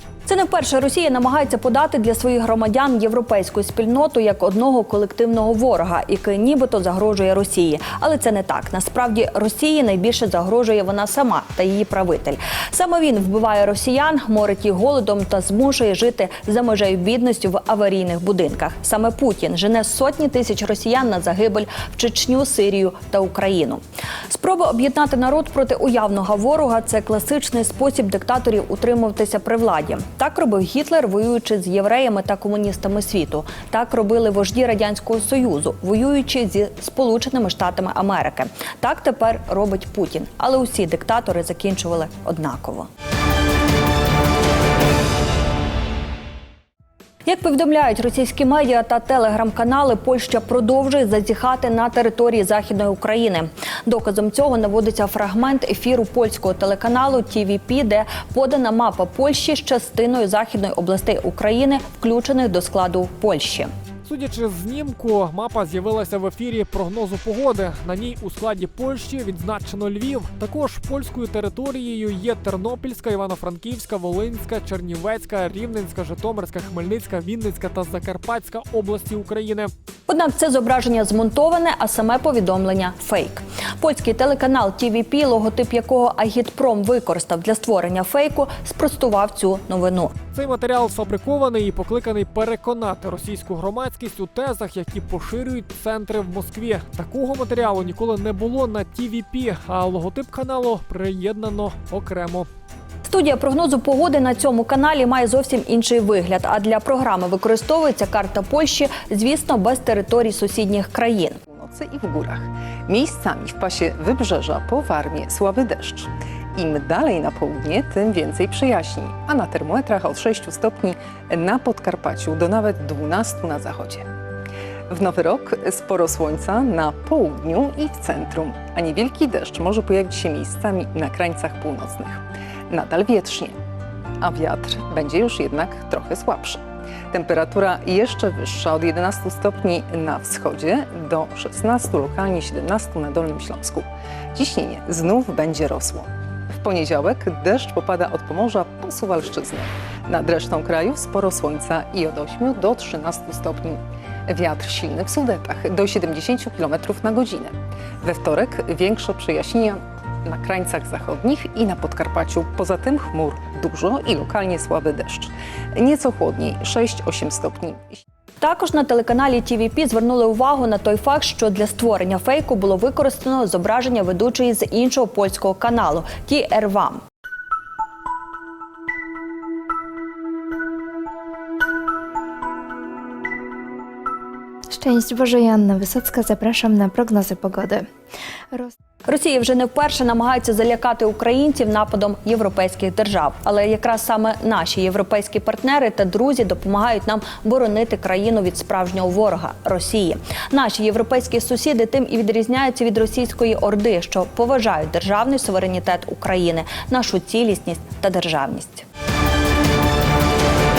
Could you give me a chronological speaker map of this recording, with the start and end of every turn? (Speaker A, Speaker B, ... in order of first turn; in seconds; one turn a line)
Speaker A: 0.3-42.9
Speaker A: 47.3-63.7
Speaker B: 64.0-79.7
Speaker A: 80.1-90.1
Speaker B: 90.3-102.5
Speaker A: 103.0-111.4
Speaker C: 111.5-124.1
Speaker C: 124.9-133.6
Speaker C: 134.2-136.6
Speaker C: 137.1-168.0
Speaker A: 168.4-177.0
Speaker D: 184.7-187.9
Speaker A: 189.1-208.8